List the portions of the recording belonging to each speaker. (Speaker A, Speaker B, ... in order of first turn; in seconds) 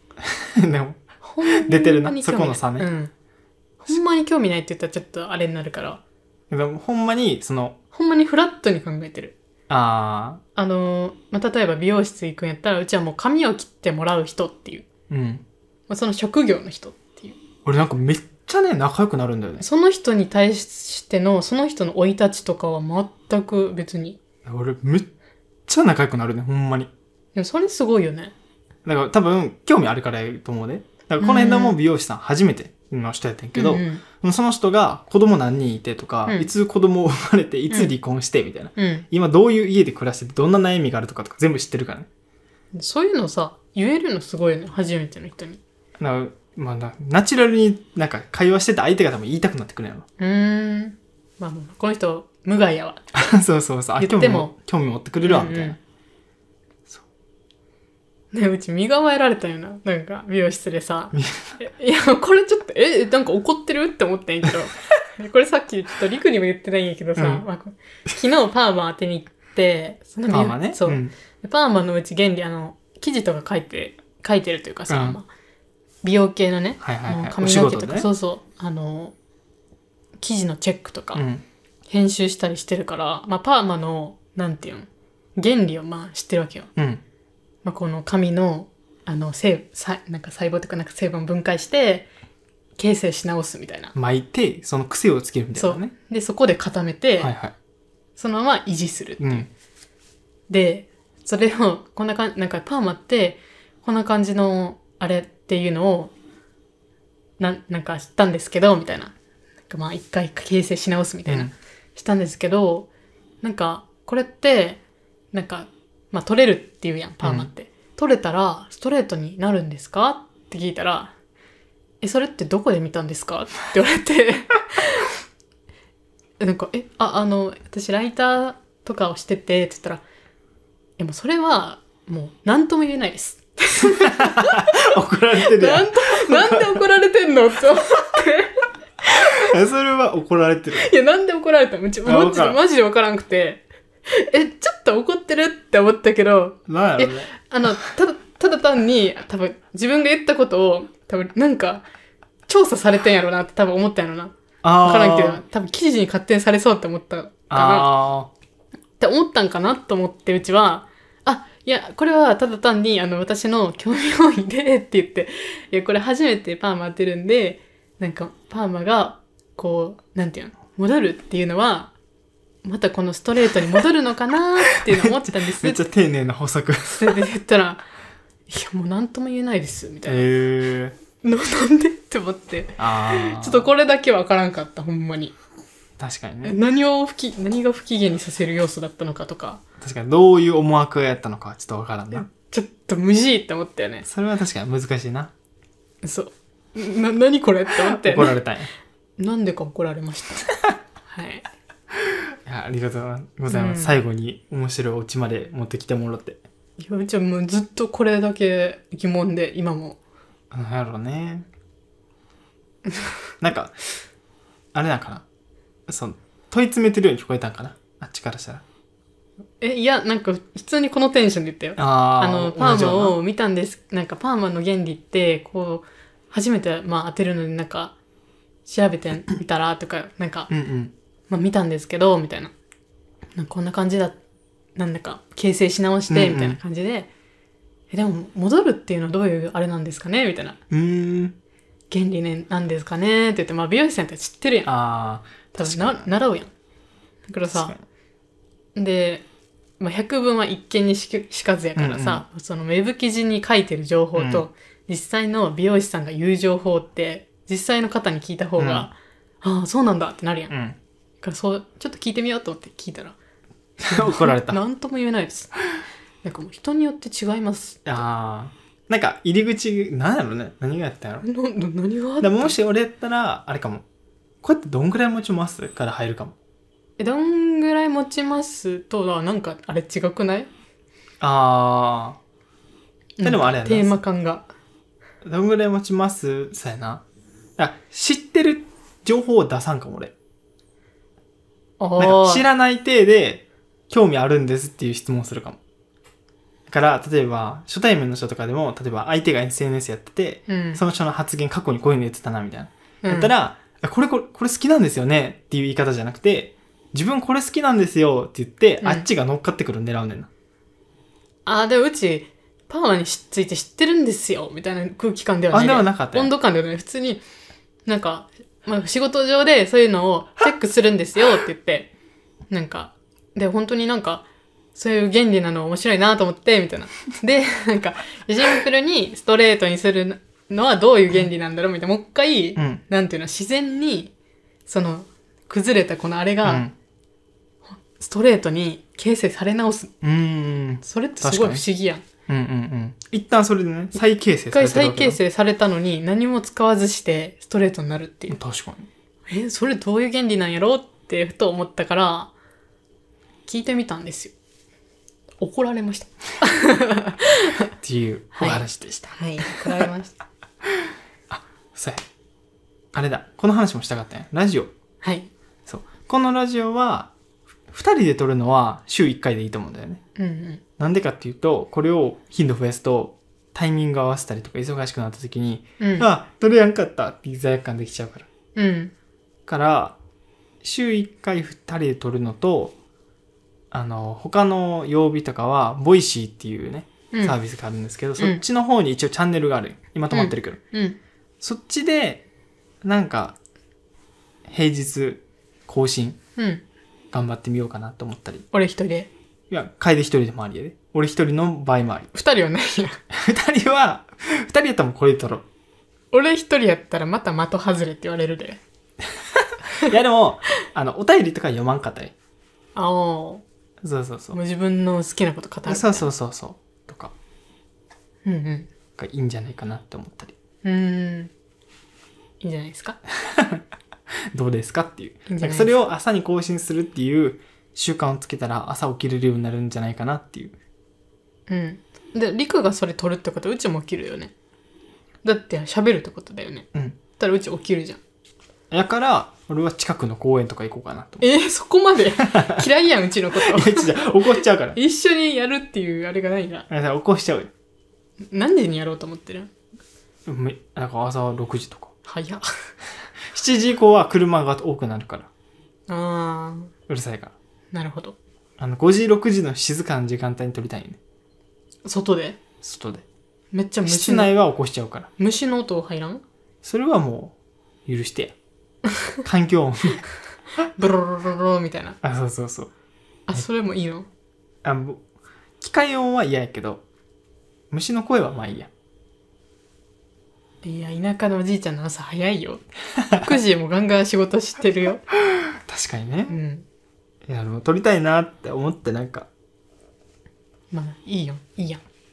Speaker A: 0.2-2.9, 6.5-7.8, 9.7-10.4, 15.1-15.4, 17.6-19.6, 24.4-25.1, 25.7-26.9, 28.8-42.1, 46.0-50.0, 53.1-55.8, 61.1-61.6, 67.2-67.4, 70.3-71.1, 74.9-75.2, 76.8-78.1, 81.1-81.4, 86.8-87.0, 93.9-95.9, 97.2-97.5, 99.2-99.5, 111.2-111.5, 117.2-117.5, 133.8-136.8, 139.3-140.9, 142.0-142.6, 146.7-147.3, 154.6-155.4, 157.5-158.3, 174.7-177.2, 180.1-180.9, 182.8-183.7, 186.0-186.6, 189.8-192.3, 194.0-195.3, 197.7-198.7, 202.4-206.4, 210.5-211.5, 213.4-213.7, 214.7-215.2, 215.9-218.6, 221.8-223.2, 230.5-230.9, 236.1-236.6, 240.7-241.3, 244.6-246.1, 247.5-247.8, 251.8-252.2, 254.2-254.5, 258.6-258.9, 260.5-260.8, 263.8-264.6, 267.8-271.2, 272.2-273.8, 274.4-276.3, 281.2-282.2, 283.2-283.9, 285.2-287.0, 287.6-290.1, 292.0-295.6, 296.7-310.3, 315.5-316.3, 336.4-336.7, 340.0-341.6, 342.3-345.2, 348.3-348.9, 357.8-359.9, 361.3-362.0, 362.9-364.7, 365.7-367.1, 367.7-370.0, 370.8-378.3, 379.5-380.0, 380.6-382.7, 383.7-390.6, 391.4-392.2, 392.8-393.4, 394.5-396.2, 397.1-398.4, 399.5-402.1, 403.1-405.4, 409.2-412.1, 413.8-414.4, 415.7-417.1, 419.0-420.3, 423.2-423.6, 424.3-430.5, 436.7-437.0, 438.7-441.2, 442.3-442.6, 443.4-444.8, 446.7-447.5, 450.2-451.9, 453.3-455.3, 456.9-457.4, 458.6-461.0, 462.6-463.0, 463.8-465.1, 466.6-467.4, 467.9-468.3, 469.2-470.0, 472.0-472.7, 474.6-475.0, 475.6-476.8, 477.7-478.7, 483.0-483.3, 485.7-486.4, 487.2-489.3
Speaker B: 1.2-3.1, 3.8-6.0, 7.9-9.3, 10.6-14.8, 15.9-17.4, 19.6-24.2, 27.3-28.3, 31.2-31.8, 33.5-34.0, 38.8-39.1, 42.7-45.6, 50.2-53.0, 54.0-54.5, 55.2-55.8, 58.3-75.3, 76.0-79.1, 80.2-81.2, 81.9-86.7, 87.6-92.1, 92.8-93.9, 95.5-97.3, 98.2-99.5, 100.5-106.1, 107.4-109.1, 109.7-112.9, 113.4-114.8, 115.3-121.1, 122.0-125.1, 126.4-130.0, 131.0-139.5, 140.7-151.8, 152.5-157.9, 159.0-171.9, 172.6-175.9, 176.9-177.8, 178.5-180.3, 181.2-185.3, 186.4-189.6, 192.1-194.0, 196.0-198.4, 199.2-200.5, 201.1-201.4, 203.5-204.0, 206.8-210.0, 212.9-213.1, 219.6-227.9, 228.7-230.5, 231.3-232.5, 233.3-234.2, 234.8-237.1, 237.9-240.6, 241.9-244.7, 245.5-246.5, 247.3-247.7, 248.7-249.2, 249.8-260.5, 261.2-263.1, 263.8-265.5, 266.2-268.0, 271.2-272.6, 277.0-280.5, 283.2-284.5, 291.8-292.4, 300.5-300.8, 303.0-303.3, 308.8-309.1, 311.4-317.2, 317.9-321.9, 322.5-334.1, 334.7-336.6, 337.9-339.9, 340.8-342.0, 344.5-348.4, 349.3-352.3, 353.4-354.3, 355.4-357.7, 358.4-360.1, 365.0-365.3, 370.1-370.6, 375.8-376.1, 378.5-378.9, 387.1-387.4, 390.1-391.0, 396.4-396.6, 398.5-399.1, 402.1-403.0, 406.1-408.6, 412.7-413.4, 414.3-416.1, 418.2-418.7, 420.6-421.3, 422.4-423.0, 425.3-425.7, 431.5-434.3, 435.2-438.0, 441.2-446.7, 448.3-449.5, 452.0-452.4, 455.9-456.7, 457.7-458.1, 461.8-462.4, 463.5-464.3, 465.2-466.2, 470.8-472.0, 473.3-474.1, 480.6-485.0, 486.3-486.6, 490.7-491.8